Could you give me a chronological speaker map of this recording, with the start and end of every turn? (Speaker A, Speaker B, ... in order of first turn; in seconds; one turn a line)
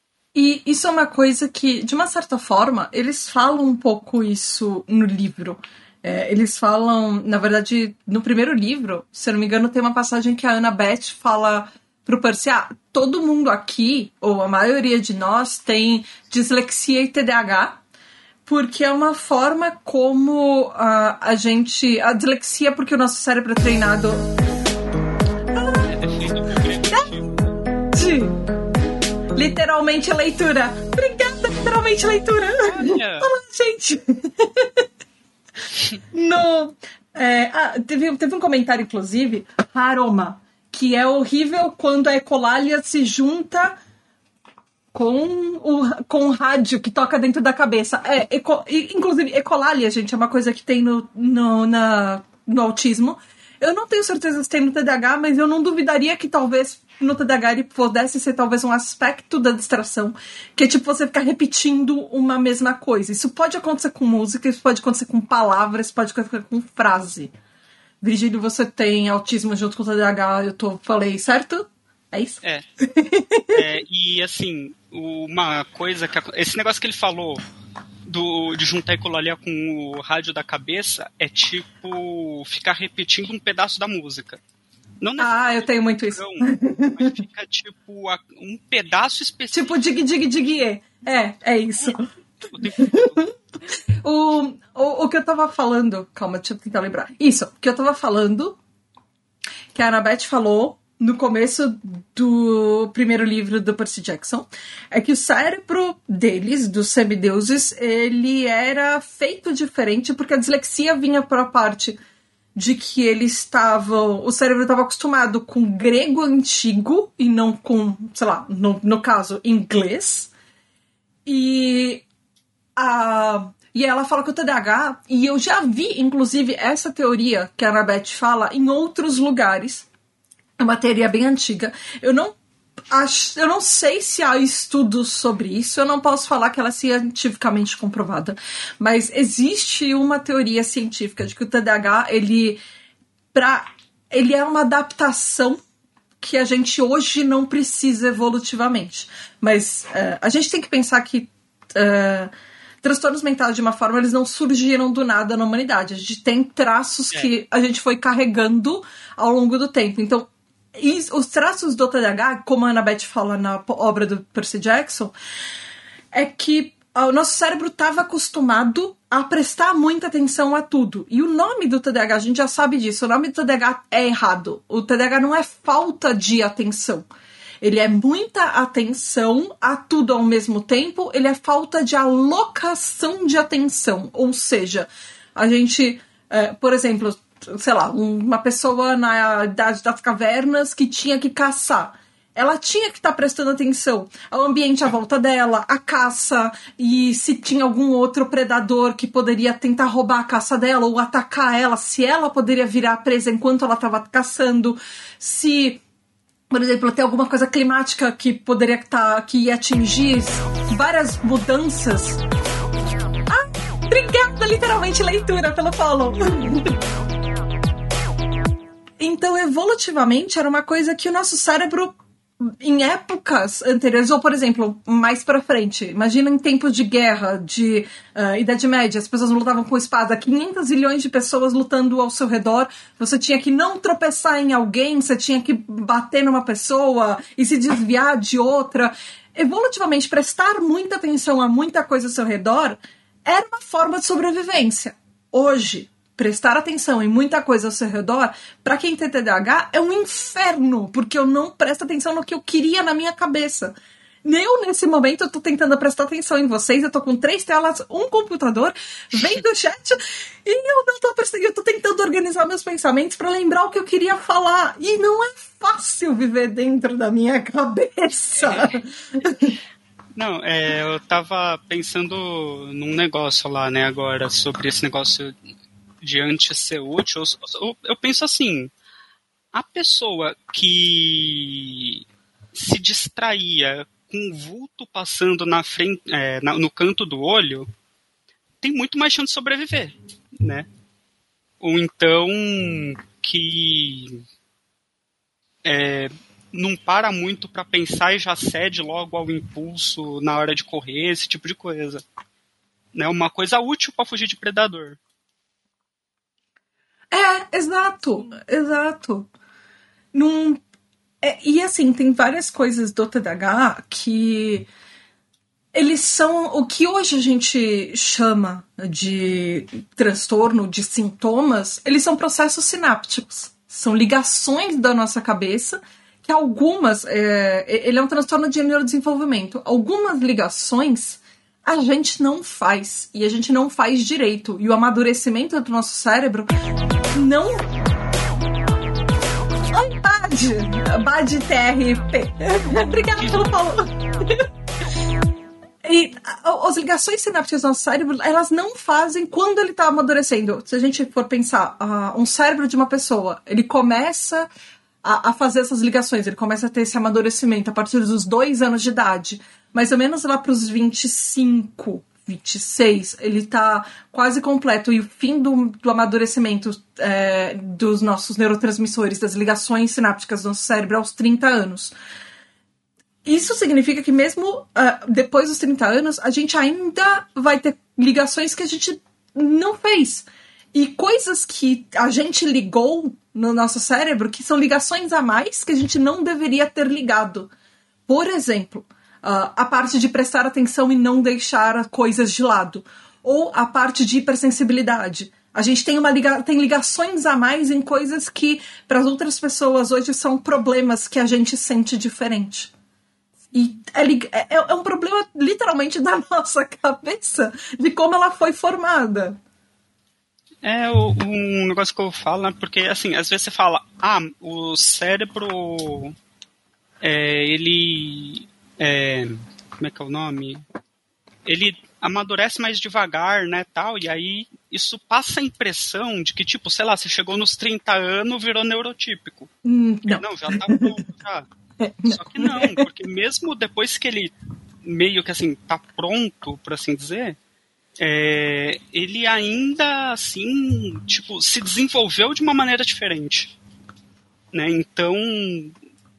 Speaker A: 0.3-17.8
Speaker A: 18.5-24.3
Speaker A: 25.5-25.9
Speaker B: 25.8-27.6
Speaker A: 27.9-28.4
Speaker A: 29.4-34.9
Speaker B: 32.6-33.3
Speaker A: 36.1-43.8
Speaker A: 44.9-67.3
Speaker A: 68.0-73.6
Speaker B: 73.5-77.5
Speaker B: 78.1-84.4
Speaker B: 85.0-89.8
Speaker A: 85.2-87.2
Speaker A: 89.5-92.1
Speaker B: 91.8-93.3
Speaker A: 92.8-98.6
Speaker A: 99.7-112.0
Speaker A: 112.5-120.3
Speaker A: 121.3-122.0
Speaker A: 122.8-129.9
Speaker A: 130.6-132.4
Speaker A: 132.9-142.6
Speaker A: 143.3-145.6
Speaker A: 146.2-165.1
Speaker A: 166.1-177.1
Speaker A: 177.6-205.8
Speaker A: 206.5-212.2
Speaker A: 213.3-216.8
Speaker A: 219.0-253.7
Speaker A: 254.2-269.6
Speaker B: 268.4-268.7
Speaker B: 270.1-275.3
Speaker B: 276.0-278.7
Speaker B: 279.5-287.7
Speaker B: 288.6-290.7
Speaker B: 291.6-294.2
Speaker B: 295.6-302.0
Speaker B: 302.9-305.0
Speaker A: 307.1-309.3
Speaker A: 310.1-310.6
Speaker A: 311.2-314.7
Speaker A: 315.7-336.5
Speaker A: 337.1-337.7
Speaker A: 339.7-344.5
Speaker A: 345.8-354.5
Speaker A: 355.0-371.9
Speaker A: 373.2-387.5
Speaker A: 388.1-402.7
Speaker A: 403.5-409.4
Speaker B: 410.6-416.2
Speaker B: 417.0-420.6
Speaker B: 421.4-429.5
Speaker A: 429.6-430.9
Speaker B: 430.1-431.5
Speaker A: 431.8-432.8
Speaker B: 432.1-437.4
Speaker B: 438.0-443.6
Speaker B: 444.5-445.8